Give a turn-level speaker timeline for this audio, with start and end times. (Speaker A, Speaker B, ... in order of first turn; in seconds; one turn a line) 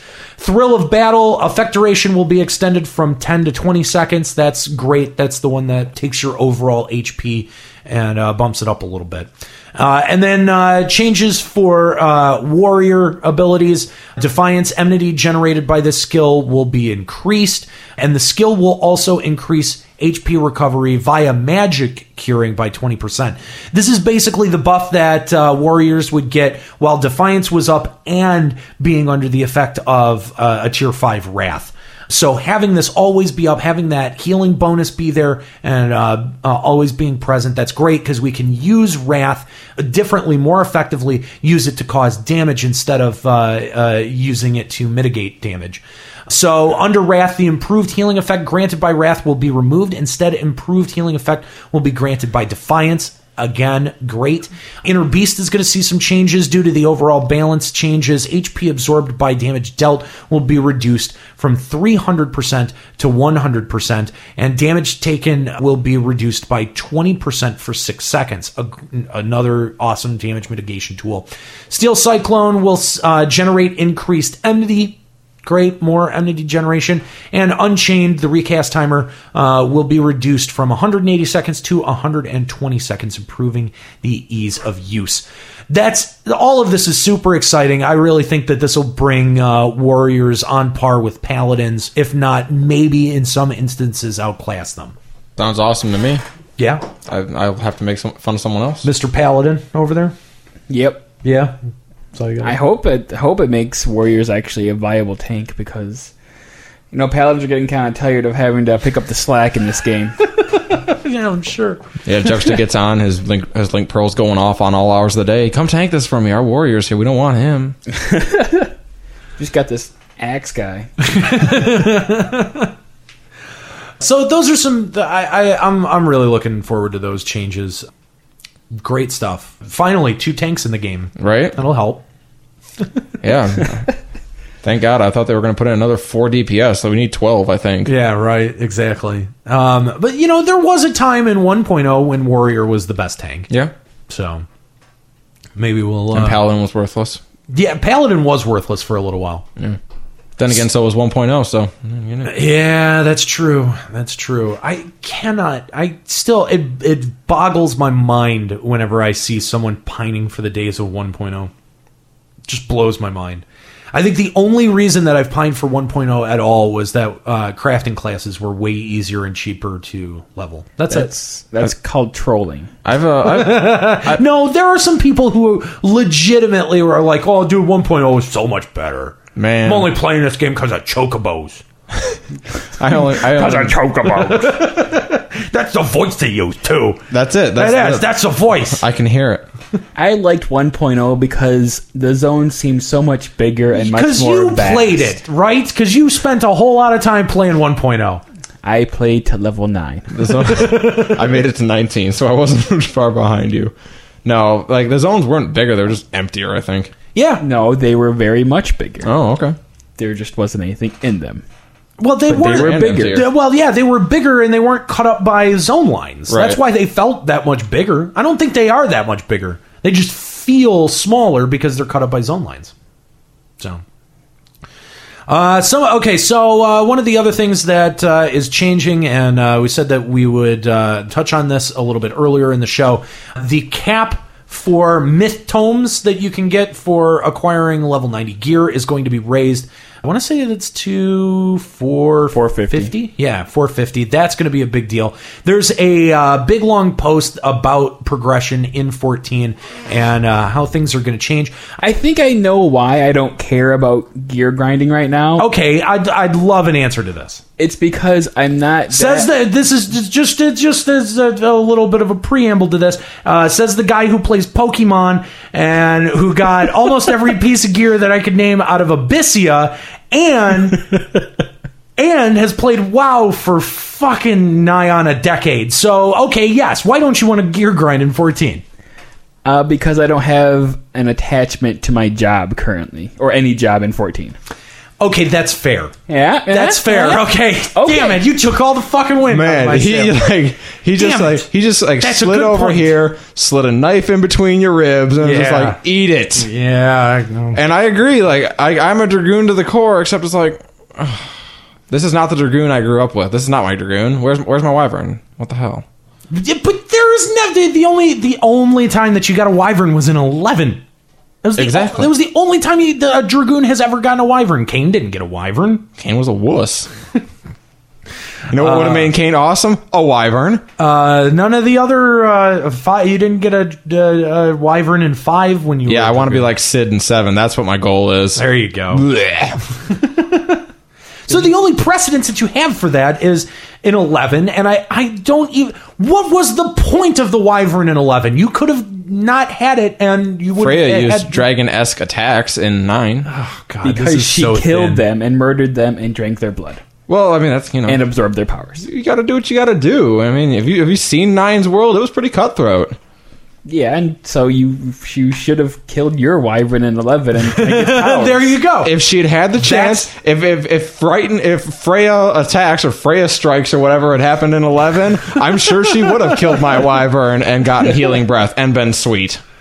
Speaker A: 0.4-95.0
Speaker B: 95.4-96.2
Speaker A: 96.6-96.9
Speaker B: 97.1-98.9
Speaker A: 98.8-100.1
Speaker C: 100.7-101.1
Speaker A: 101.2-101.5
Speaker A: 102.1-102.6
Speaker C: 102.4-106.1
Speaker C: 106.9-110.2
Speaker A: 110.4-111.8
Speaker B: 112.0-117.8
Speaker C: 117.9-118.7
Speaker C: 119.4-120.9
Speaker A: 121.0-122.7
Speaker A: 124.0-127.9
Speaker A: 128.7-132.0
Speaker B: 131.2-131.6
Speaker B: 133.2-133.9
Speaker B: 134.6-137.9
Speaker A: 137.9-143.5
Speaker A: 144.1-144.4
Speaker A: 145.6-146.4
Speaker B: 146.1-147.2
Speaker A: 147.5-149.5
Speaker B: 150.4-152.3
Speaker A: 152.2-161.5
Speaker A: 162.5-171.1
Speaker C: 170.9-172.7
Speaker B: 172.8-174.2
Speaker A: 173.2-181.6
Speaker B: 179.4-179.9
Speaker B: 182.8-183.8
Speaker C: 183.2-184.7
Speaker A: 184.2-188.8
Speaker B: 187.1-188.1
Speaker B: 188.8-189.4
Speaker C: 189.9-195.2
Speaker A: 193.7-198.2
Speaker C: 198.6-200.2
Speaker B: 200.1-203.7
Speaker A: 200.4-201.3
Speaker B: 204.2-206.9
Speaker A: 207.1-207.4
Speaker C: 207.4-209.1
Speaker B: 209.0-209.6
Speaker C: 210.0-211.4
Speaker A: 212.0-222.7
Speaker C: 212.3-213.2
Speaker B: 212.4-213.3
Speaker B: 216.3-216.6
Speaker A: 225.3-251.6
Speaker C: 242.3-242.9
Speaker C: 251.8-255.5
Speaker A: 255.4-257.4
Speaker C: 257.6-259.3
Speaker A: 258.9-271.2
Speaker A: 272.0-278.6
Speaker C: 279.4-284.4
Speaker A: 285.0-285.9
Speaker C: 286.1-288.2
Speaker A: 286.5-293.0
Speaker B: 289.3-296.5
Speaker A: 295.2-295.8
Speaker A: 296.4-297.6
Speaker B: 297.5-301.4
Speaker B: 301.9-305.9
Speaker A: 306.3-310.8
Speaker A: 311.4-315.9
Speaker B: 311.6-312.1
Speaker B: 316.0-316.9
Speaker B: 318.5-320.6
Speaker A: 318.5-319.1
Speaker A: 320.8-326.5
Speaker B: 325.9-329.6
Speaker A: 328.4-329.1
Speaker A: 329.9-330.6
Speaker A: 331.3-341.5
Speaker B: 340.6-343.3
Speaker A: 343.2-345.0
Speaker C: 343.8-346.8
Speaker B: 347.1-348.1
Speaker C: 347.9-348.9
Speaker B: 348.8-353.0
Speaker C: 353.6-358.5
Speaker A: 357.5-359.0
Speaker B: 358.8-369.4
Speaker A: 359.6-360.1